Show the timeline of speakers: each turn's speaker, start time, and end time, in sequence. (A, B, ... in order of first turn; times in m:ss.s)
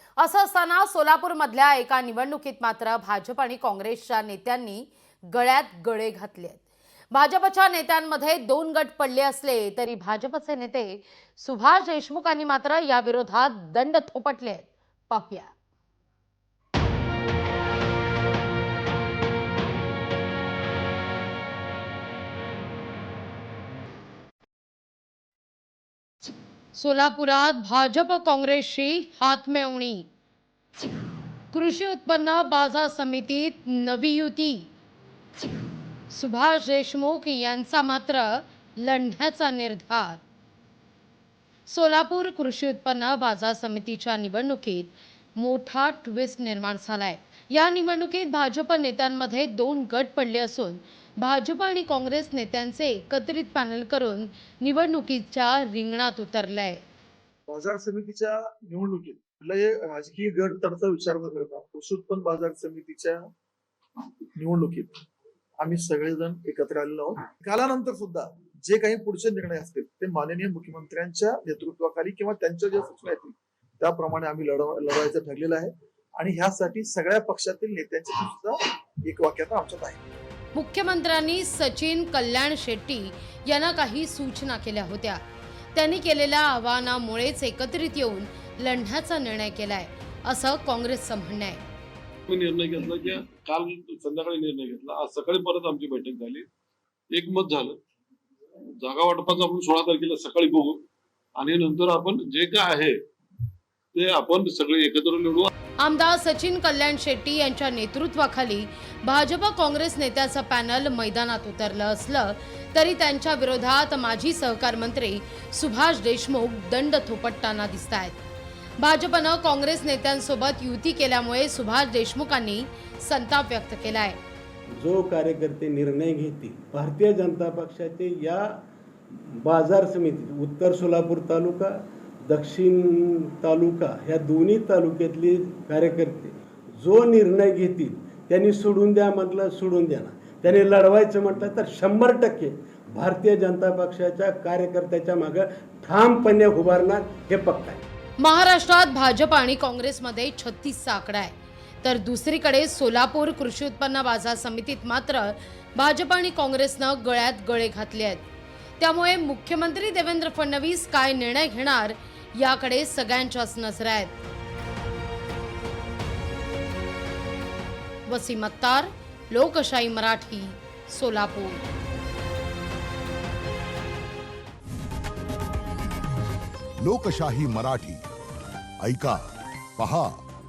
0:00.2-0:15.5 A
0:26.7-0:30.1 A
0:31.5-0:34.7 A
0:36.1-0:40.2 A
0:41.7-0:56.8 A
0:57.5-1:03.2 B
1:04.3-1:04.9 B
1:05.6-1:20.0 B
1:20.6-1:25.2 A
1:25.8-1:31.6 A
1:32.3-1:36.5 C
1:37.1-1:37.8 C
1:38.8-1:40.8 C
1:41.4-1:43.0 C
1:43.9-1:45.5 C
1:45.8-1:58.2 A
1:58.8-2:04.2 A
2:04.8-2:27.8 D
2:28.2-2:38.3 A
2:38.8-2:44.1 A
2:48.1-2:51.6 A
2:56.8-2:58.0 E
2:58.8-3:00.2 E